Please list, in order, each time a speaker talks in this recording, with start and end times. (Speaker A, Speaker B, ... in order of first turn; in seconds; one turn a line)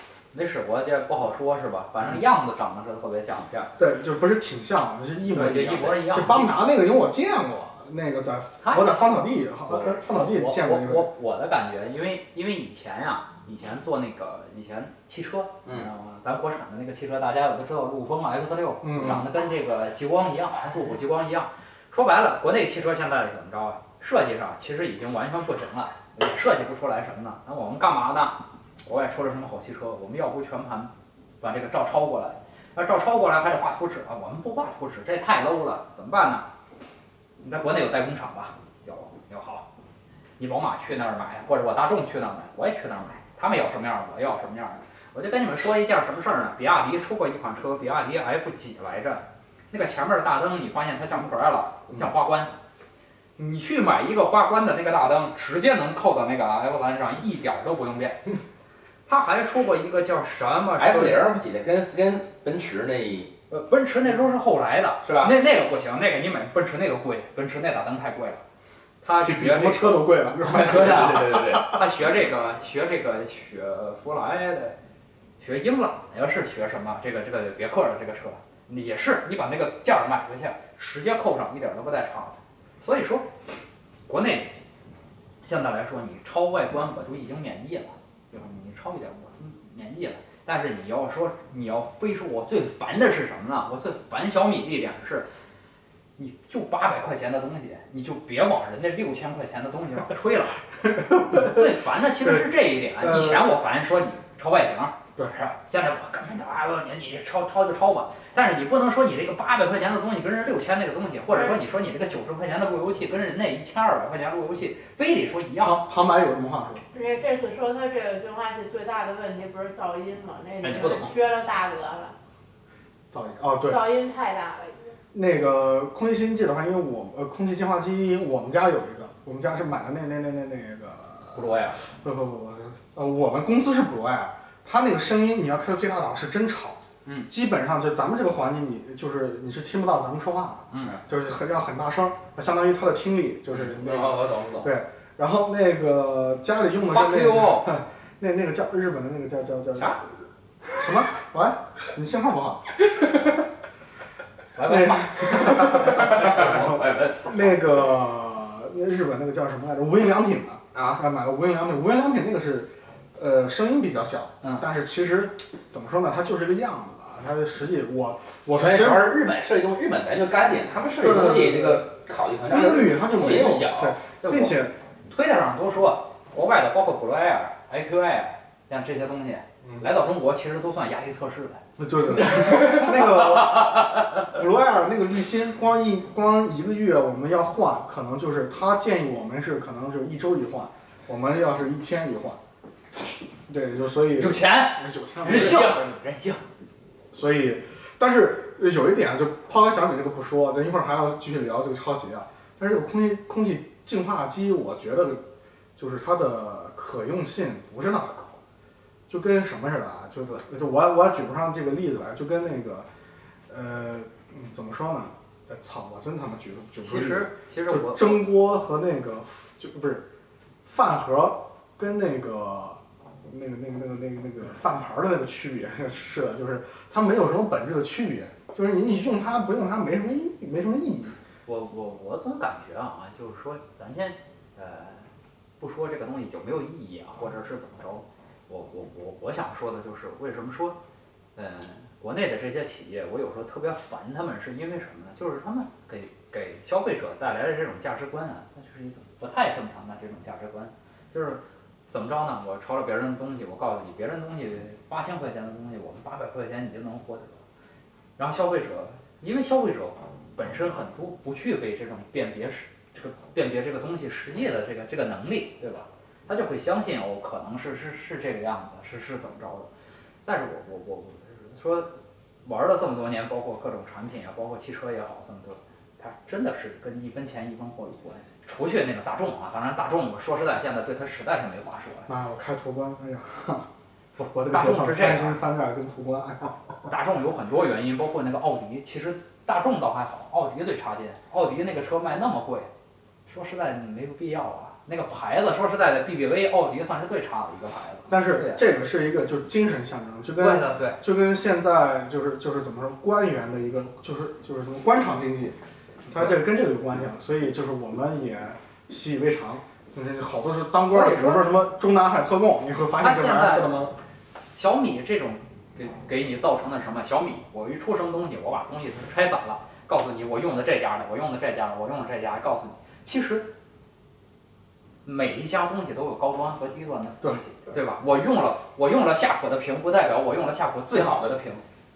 Speaker A: 0.3-3.7
Speaker B: 3.8-11.1
Speaker A: 5.3-6.5
Speaker A: 8.6-36.5
Speaker B: 18.8-19.2
Speaker A: 37.4-39.6
Speaker A: 40.4-52.5
Speaker A: 53.4-58.2
Speaker A: 59.1-61.3
Speaker C: 60.8-63.3
Speaker A: 63.5-68.4
Speaker C: 65.0-65.3
Speaker A: 69.0-74.8
Speaker B: 69.2-71.6
Speaker C: 70.4-71.8
Speaker A: 75.4-83.3
Speaker A: 84.1-84.6
Speaker A: 85.4-95.3
Speaker A: 96.2-100.6
Speaker B: 100.8-101.7
Speaker A: 101.2-115.8
Speaker B: 102.2-102.5
Speaker B: 103.0-103.5
Speaker B: 115.6-116.8
Speaker D: 116.9-122.1
Speaker A: 120.6-121.1
Speaker B: 123.1-123.8
Speaker D: 123.6-124.9
Speaker B: 125.1-150.0
Speaker A: 131.3-131.8
Speaker A: 140.7-141.0
Speaker C: 143.5-144.7
Speaker A: 146.8-147.7
Speaker B: 150.8-153.3
Speaker A: 154.5-157.7
Speaker B: 154.6-169.1
Speaker C: 160.7-161.0
Speaker C: 168.6-174.0
Speaker B: 171.0-171.9
Speaker B: 172.5-174.7
Speaker A: 174.2-181.6
Speaker B: 181.8-192.4
Speaker A: 182.2-183.7
Speaker B: 193.5-195.7
Speaker A: 194.2-196.4
Speaker C: 195.2-195.9
Speaker B: 197.1-205.2
Speaker B: 205.8-208.4
Speaker B: 209.1-212.9
Speaker B: 213.5-220.0
Speaker A: 216.8-218.3
Speaker B: 220.6-231.2
Speaker A: 231.4-235.1
Speaker A: 235.6-240.8
Speaker A: 241.4-257.4
Speaker A: 258.2-269.7
Speaker A: 270.2-282.1
Speaker B: 282.1-283.7
Speaker A: 284.2-285.4
Speaker B: 284.2-286.7
Speaker A: 286.8-292.7
Speaker A: 293.3-298.6
Speaker B: 298.1-305.6
Speaker A: 300.4-301.0
Speaker B: 306.1-313.9
Speaker A: 310.9-311.5
Speaker A: 313.0-313.8
Speaker A: 314.5-323.5
Speaker A: 325.0-331.6